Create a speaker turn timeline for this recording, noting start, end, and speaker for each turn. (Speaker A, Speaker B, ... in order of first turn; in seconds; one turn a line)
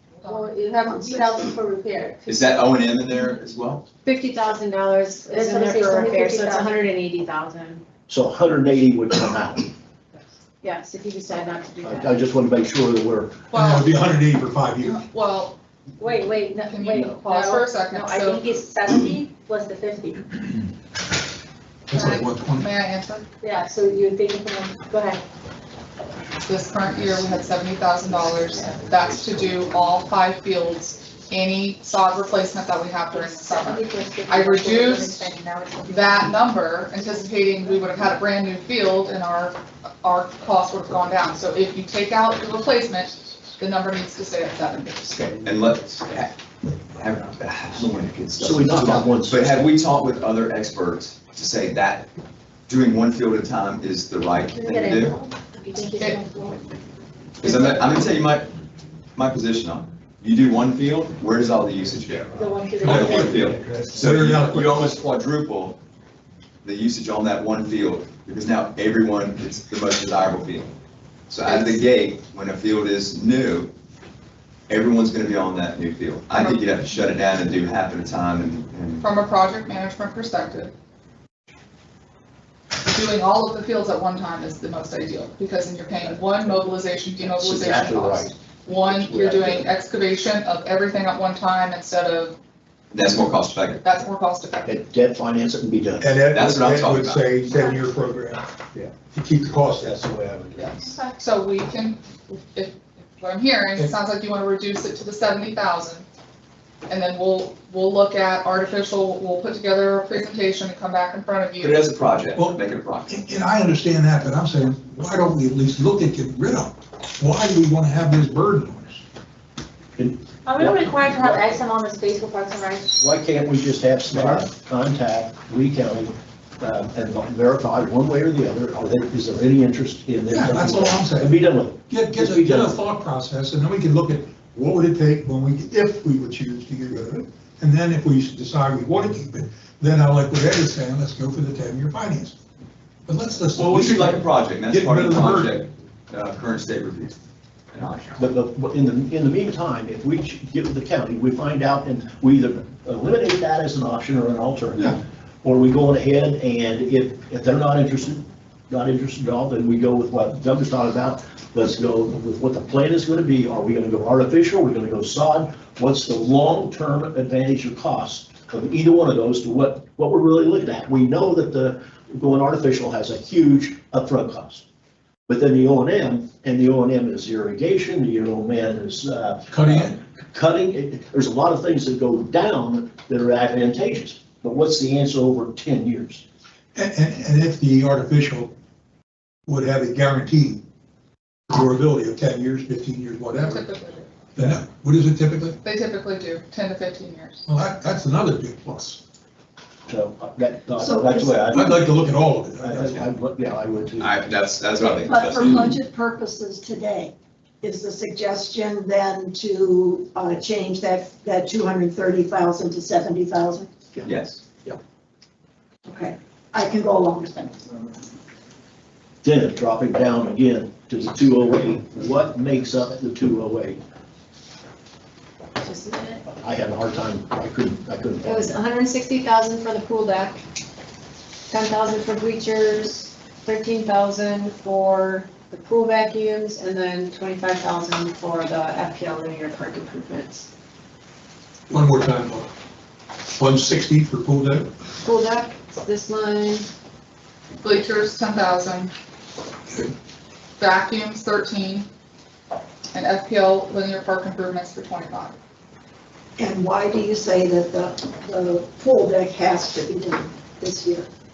Speaker A: 0.2-2.6
Speaker B: 0.9-1.6
Speaker C: 2.2-3.8
Speaker D: 4.0-7.8
Speaker A: 5.3-6.8
Speaker E: 8.1-9.7
Speaker D: 10.6-12.2
Speaker E: 11.8-13.4
Speaker F: 13.5-14.0
Speaker G: 13.5-15.0
Speaker F: 14.8-15.6
Speaker A: 16.0-20.3
Speaker F: 16.7-18.4
Speaker G: 21.9-22.7
Speaker F: 21.9-23.3
Speaker A: 23.4-25.2
Speaker F: 26.4-35.2
Speaker A: 33.1-36.4
Speaker F: 35.9-45.4
Speaker C: 45.4-52.1
Speaker E: 48.4-49.6
Speaker C: 52.7-55.1
Speaker A: 54.5-56.6
Speaker C: 57.4-58.5
Speaker A: 57.5-57.8
Speaker C: 59.1-65.8
Speaker A: 62.3-63.4
Speaker G: 62.8-64.8
Speaker C: 66.6-70.7
Speaker C: 71.3-73.7
Speaker F: 71.4-71.8
Speaker C: 74.7-79.0
Speaker F: 76.3-76.7
Speaker F: 79.0-80.7
Speaker F: 82.8-92.3
Speaker E: 87.3-89.7
Speaker C: 92.9-93.8
Speaker F: 93.8-94.7
Speaker E: 94.7-96.1
Speaker G: 96.0-98.4
Speaker C: 96.3-97.3
Speaker G: 99.1-100.0
Speaker E: 99.8-100.7
Speaker F: 100.5-106.0
Speaker F: 106.9-111.8
Speaker C: 111.6-113.1
Speaker G: 112.3-119.0
Speaker E: 120.0-121.4
Speaker A: 120.4-122.9
Speaker E: 123.0-132.8
Speaker G: 124.1-124.4
Speaker G: 130.3-142.3
Speaker G: 143.1-145.6
Speaker C: 143.5-147.2
Speaker C: 147.7-148.2
Speaker E: 148.2-174.6
Speaker E: 175.3-186.2
Speaker G: 179.5-179.9
Speaker G: 186.7-188.5
Speaker G: 189.5-190.6
Speaker G: 191.5-193.7
Speaker F: 193.3-194.1
Speaker G: 194.3-195.6
Speaker F: 195.6-197.4
Speaker G: 197.5-199.0
Speaker E: 199.9-201.8
Speaker B: 200.8-201.7
Speaker G: 201.5-203.1
Speaker E: 202.6-204.1
Speaker C: 204.0-205.8
Speaker B: 204.8-213.9
Speaker C: 214.0-214.4
Speaker B: 215.8-217.7
Speaker E: 219.2-223.8
Speaker D: 225.6-226.2
Speaker E: 226.4-228.6
Speaker D: 228.2-230.4
Speaker D: 231.5-240.5
Speaker G: 241.7-242.5
Speaker G: 243.3-244.7
Speaker D: 245.0-246.7
Speaker F: 247.6-248.9
Speaker F: 250.6-251.9
Speaker F: 252.9-255.3
Speaker B: 256.4-261.1